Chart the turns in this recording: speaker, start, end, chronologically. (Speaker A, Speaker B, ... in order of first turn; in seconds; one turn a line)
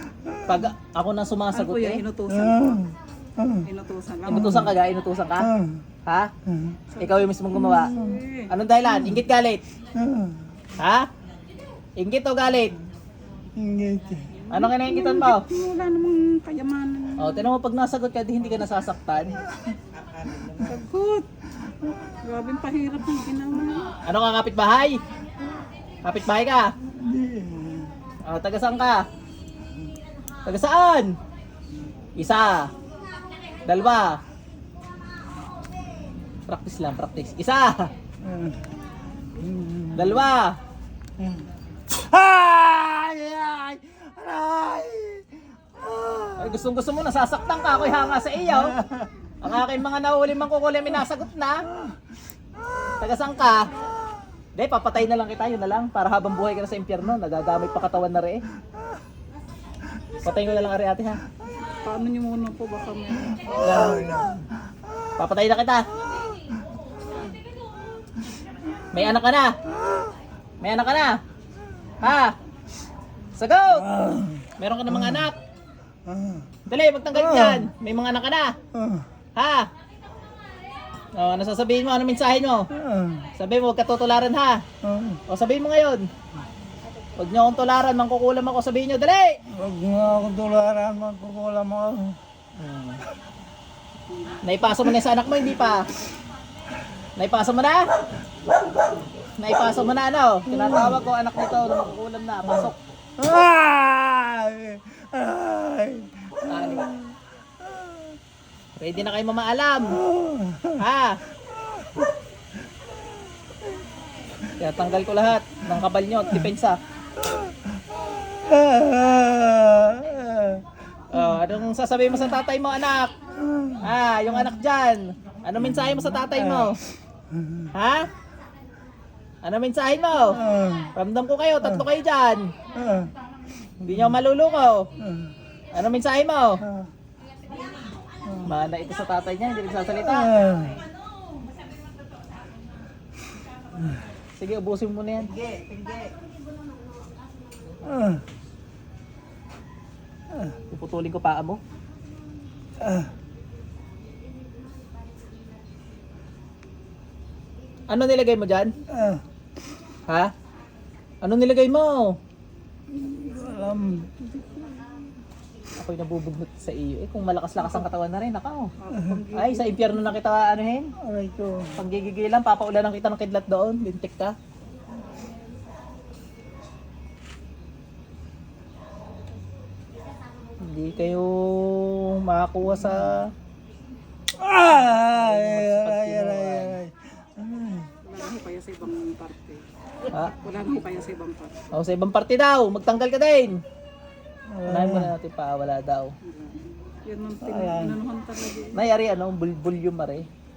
Speaker A: 0.3-0.6
Speaker B: 0.5-2.0
Speaker C: 1.5-2.9
Speaker A: 2.4-3.6
Speaker C: 3.6-4.6
Speaker B: 4.3-5.5
Speaker A: 4.3-4.7
Speaker A: 5.4-5.8
Speaker B: 6.1-6.3
Speaker A: 6.5-6.8
Speaker C: 6.9-8.5
Speaker B: 7.0-7.9
Speaker A: 7.6-8.2
Speaker B: 8.5-9.6
Speaker A: 9.9-10.4
Speaker B: 10.8-11.1
Speaker B: 12.0-12.8
Speaker A: 13.6-14.3
Speaker C: 14.3-17.5
Speaker B: 14.5-15.4
Speaker B: 17.2-19.4
Speaker C: 20.6-21.3
Speaker C: 22.2-24.0
Speaker B: 24.0-25.0
Speaker B: 26.0-26.7
Speaker A: 27.0-27.9
Speaker B: 28.2-29.1
Speaker B: 30.4-31.1
Speaker B: 32.2-32.7
Speaker B: 33.6-34.2
Speaker B: 36.5-37.9
Speaker A: 38.2-38.6
Speaker A: 39.4-40.2
Speaker B: 39.9-40.6
Speaker A: 41.2-46.6
Speaker B: 46.4-48.8
Speaker A: 48.5-49.1
Speaker B: 49.4-51.6
Speaker B: 53.0-53.7
Speaker B: 54.5-58.4
Speaker B: 60.2-61.2
Speaker C: 61.8-63.6
Speaker A: 63.5-64.3
Speaker B: 63.6-64.4
Speaker B: 65.2-65.9
Speaker B: 68.9-69.5
Speaker B: 70.6-71.2
Speaker B: 72.0-72.3
Speaker B: 73.4-73.9
Speaker A: 73.8-75.3
Speaker B: 74.6-75.4
Speaker A: 76.1-76.5
Speaker B: 76.7-78.6
Speaker A: 77.1-77.7
Speaker A: 78.7-79.0
Speaker B: 79.4-79.7
Speaker B: 81.1-82.7
Speaker A: 82.7-83.3
Speaker B: 83.4-84.6
Speaker A: 84.8-85.2
Speaker B: 85.3-86.1
Speaker B: 87.2-89.4
Speaker A: 89.5-92.2
Speaker B: 92.6-93.0
Speaker C: 94.1-94.4
Speaker B: 94.4-95.9
Speaker B: 97.2-97.9
Speaker B: 99.4-102.8
Speaker A: 100.5-101.0
Speaker A: 102.5-107.1
Speaker B: 106.5-106.9
Speaker A: 107.7-108.0
Speaker B: 108.8-110.0
Speaker A: 110.0-110.8
Speaker B: 110.8-111.2
Speaker B: 114.5-116.8
Speaker A: 118.3-120.7
Speaker B: 121.1-123.2
Speaker A: 123.5-123.8
Speaker B: 123.8-126.8
Speaker A: 126.2-126.7
Speaker A: 127.4-127.7
Speaker B: 127.7-128.1
Speaker B: 129.4-130.4
Speaker A: 130.4-130.9
Speaker B: 130.9-132.5
Speaker A: 132.8-133.1
Speaker B: 133.8-134.9
Speaker A: 135.0-135.3
Speaker B: 135.7-136.6
Speaker A: 138.3-138.5
Speaker B: 138.4-140.4
Speaker A: 140.2-140.8
Speaker B: 144.4-145.9
Speaker A: 147.9-148.2
Speaker B: 150.7-151.6
Speaker B: 157.9-158.7
Speaker A: 158.9-159.2
Speaker B: 161.2-162.2
Speaker A: 162.9-164.5
Speaker B: 165.8-168.7
Speaker C: 168.8-169.8
Speaker B: 169.3-170.9
Speaker A: 171.0-171.8
Speaker B: 171.8-174.3
Speaker B: 180.6-183.3
Speaker A: 184.4-187.9
Speaker B: 184.7-186.8
Speaker C: 188.0-189.7
Speaker B: 190.1-190.4
Speaker C: 190.4-191.6
Speaker B: 191.7-193.6
Speaker A: 194.5-195.1
Speaker B: 194.7-196.1
Speaker C: 196.2-198.8
Speaker A: 197.4-198.0
Speaker B: 198.7-200.3